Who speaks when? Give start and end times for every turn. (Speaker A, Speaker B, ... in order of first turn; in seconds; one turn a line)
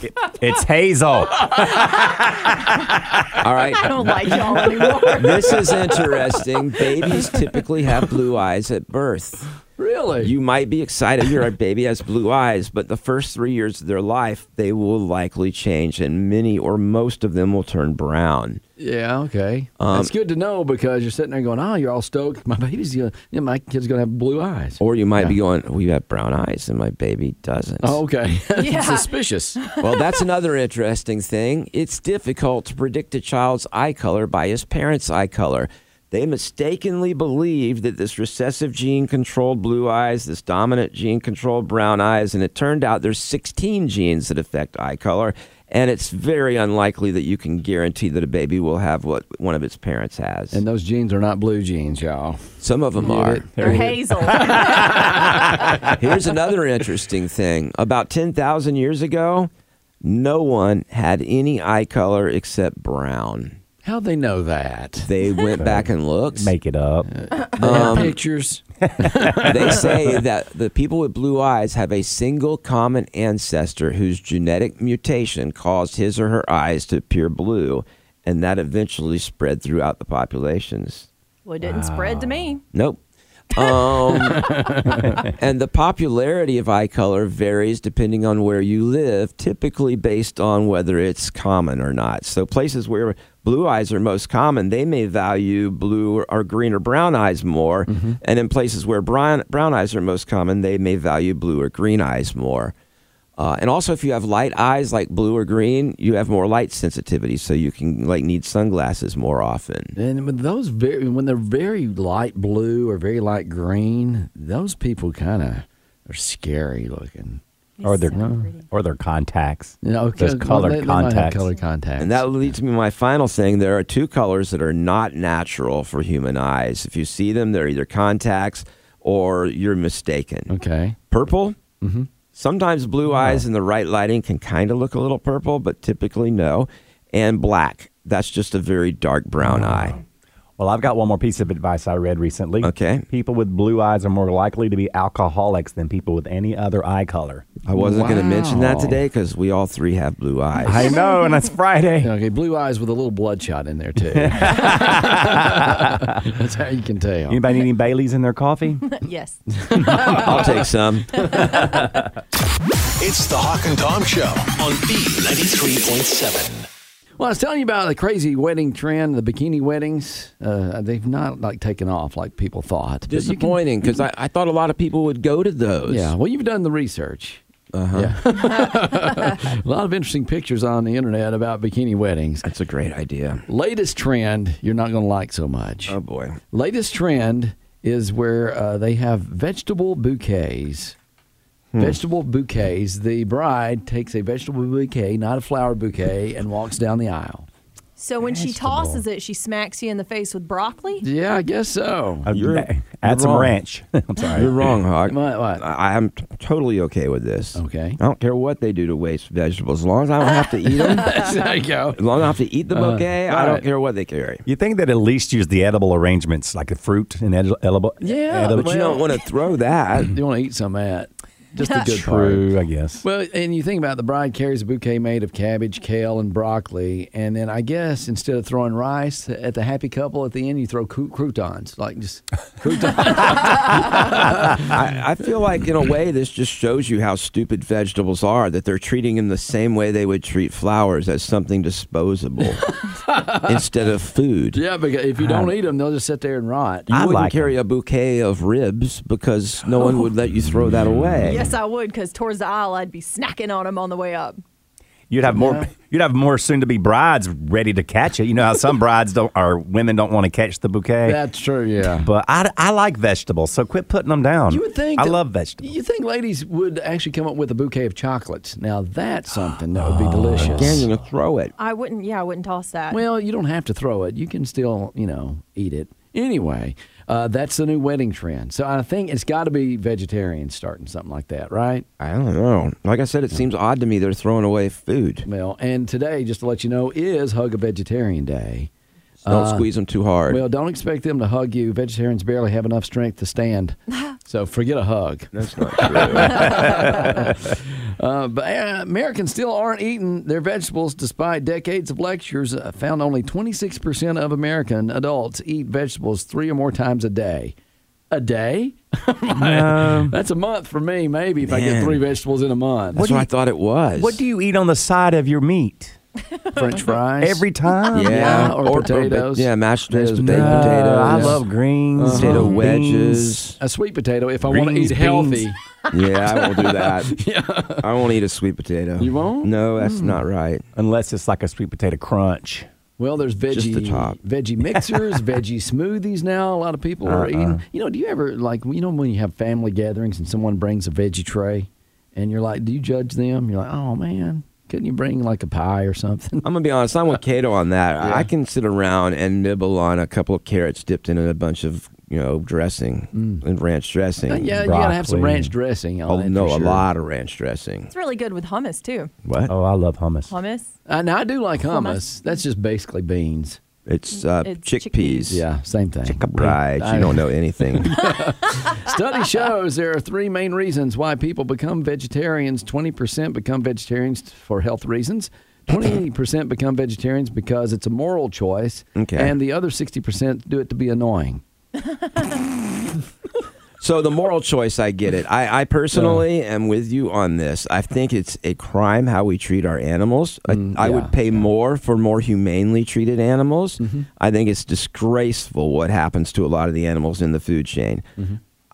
Speaker A: 0.2-3.2
Speaker B: 1.7-2.2
Speaker C: 3.4-4.3
Speaker B: 3.7-6.1
Speaker C: 5.0-9.5
Speaker D: 9.8-10.3
Speaker C: 10.2-18.6
Speaker D: 18.8-25.4
Speaker C: 19.8-20.1
Speaker C: 24.8-28.0
Speaker D: 27.8-29.6
Speaker B: 28.6-30.1
Speaker C: 29.8-50.6
Speaker D: 50.5-55.5
Speaker C: 52.6-53.5
Speaker B: 53.6-55.4
Speaker A: 54.3-55.4
Speaker C: 55.9-59.5
Speaker C: 60.0-63.6
Speaker D: 63.8-65.1
Speaker C: 65.1-66.5
Speaker A: 65.6-67.1
Speaker D: 67.1-69.9
Speaker C: 67.6-68.2
Speaker A: 68.8-69.7
Speaker C: 69.5-81.1
Speaker B: 81.5-82.6
Speaker A: 81.6-82.5
Speaker C: 82.7-83.0
Speaker C: 83.5-84.6
Speaker D: 84.3-85.1
Speaker C: 85.3-102.7
Speaker D: 97.9-98.2
Speaker C: 103.4-109.9
Speaker D: 110.0-117.4
Speaker B: 117.8-118.7
Speaker A: 117.8-121.5
Speaker D: 118.2-118.5
Speaker D: 119.8-122.5
Speaker C: 122.0-130.5
Speaker D: 130.5-131.0
Speaker C: 131.1-131.6
Speaker D: 131.8-132.1
Speaker C: 132.3-140.0
Speaker A: 140.6-147.5
Speaker C: 142.6-143.1
Speaker C: 147.7-150.8
Speaker D: 147.7-149.0
Speaker A: 150.6-152.1
Speaker B: 150.7-151.4
Speaker D: 152.0-157.4
Speaker A: 154.1-156.2
Speaker A: 157.3-158.9
Speaker B: 158.8-160.6
Speaker D: 159.6-160.6
Speaker C: 160.1-161.4
Speaker B: 161.1-161.8
Speaker D: 161.2-161.8
Speaker E: 163.0-166.7
Speaker D: 167.2-173.6
Speaker C: 173.1-176.1
Speaker D: 175.9-177.4
Speaker C: 177.7-178.2
Speaker D: 177.9-182.5
Speaker C: 182.4-183.4
Speaker D: 183.5-186.0
Speaker C: 185.9-186.4
Speaker D: 186.5-191.0
Speaker C: 191.7-192.0
Speaker D: 191.8-197.5
Speaker B: 198.0-201.1
Speaker A: 198.2-199.0
Speaker D: 201.0-202.3
Speaker A: 202.3-204.5
Speaker C: 202.3-203.6
Speaker C: 204.3-211.2
Speaker D: 205.1-205.6
Speaker D: 207.6-208.0
Speaker D: 210.7-212.0
Speaker C: 212.0-214.4
Speaker D: 212.7-213.7
Speaker A: 214.5-218.8
Speaker D: 218.0-219.2
Speaker C: 218.5-220.2
Speaker D: 220.0-222.5
Speaker A: 221.7-223.0
Speaker D: 223.0-234.8
Speaker C: 233.9-242.8
Speaker D: 242.6-243.6
Speaker C: 243.4-244.6
Speaker D: 244.5-247.1
Speaker A: 245.2-245.5
Speaker A: 246.9-247.5
Speaker C: 246.9-251.4
Speaker B: 251.3-254.4
Speaker A: 255.1-261.2
Speaker D: 255.2-255.7
Speaker D: 261.1-262.1
Speaker A: 262.0-265.8
Speaker D: 264.5-270.9
Speaker A: 269.8-270.9
Speaker C: 270.4-271.5
Speaker B: 271.6-273.0
Speaker D: 272.9-281.9
Speaker C: 282.0-285.3
Speaker D: 285.2-288.7
Speaker D: 289.2-289.7
Speaker C: 289.3-290.4
Speaker D: 290.3-307.5
Speaker C: 295.3-296.8
Speaker A: 296.3-296.9
Speaker D: 308.1-313.0
Speaker A: 309.3-310.2
Speaker C: 311.5-312.0
Speaker C: 312.9-314.2
Speaker A: 313.0-313.3
Speaker A: 314.0-316.0
Speaker D: 316.5-321.4
Speaker A: 317.2-318.5
Speaker C: 317.9-321.4
Speaker A: 320.2-323.6
Speaker D: 322.0-322.6
Speaker C: 322.1-323.5
Speaker D: 323.6-325.6
Speaker A: 324.4-325.5
Speaker C: 325.9-327.1
Speaker D: 326.3-327.9
Speaker C: 327.8-330.6
Speaker D: 329.0-330.2
Speaker A: 330.8-332.7
Speaker D: 333.0-346.5
Speaker C: 333.5-334.2
Speaker A: 334.8-335.2
Speaker C: 337.1-337.6
Speaker C: 346.4-354.5
Speaker D: 348.0-348.3
Speaker D: 353.1-353.4
Speaker D: 354.3-356.9
Speaker A: 354.5-355.5
Speaker C: 356.1-357.9
Speaker B: 357.9-359.1
Speaker C: 359.3-359.5
Speaker A: 359.5-360.3
Speaker B: 360.3-360.7
Speaker D: 360.9-363.6
Speaker B: 361.7-362.0
Speaker C: 363.9-365.4
Speaker B: 364.2-365.4
Speaker D: 365.3-381.4
Speaker C: 366.1-368.0
Speaker A: 366.2-366.6
Speaker C: 379.0-379.4
Speaker C: 383.8-398.1
Speaker D: 385.9-386.2
Speaker D: 390.5-391.1
Speaker D: 393.8-394.1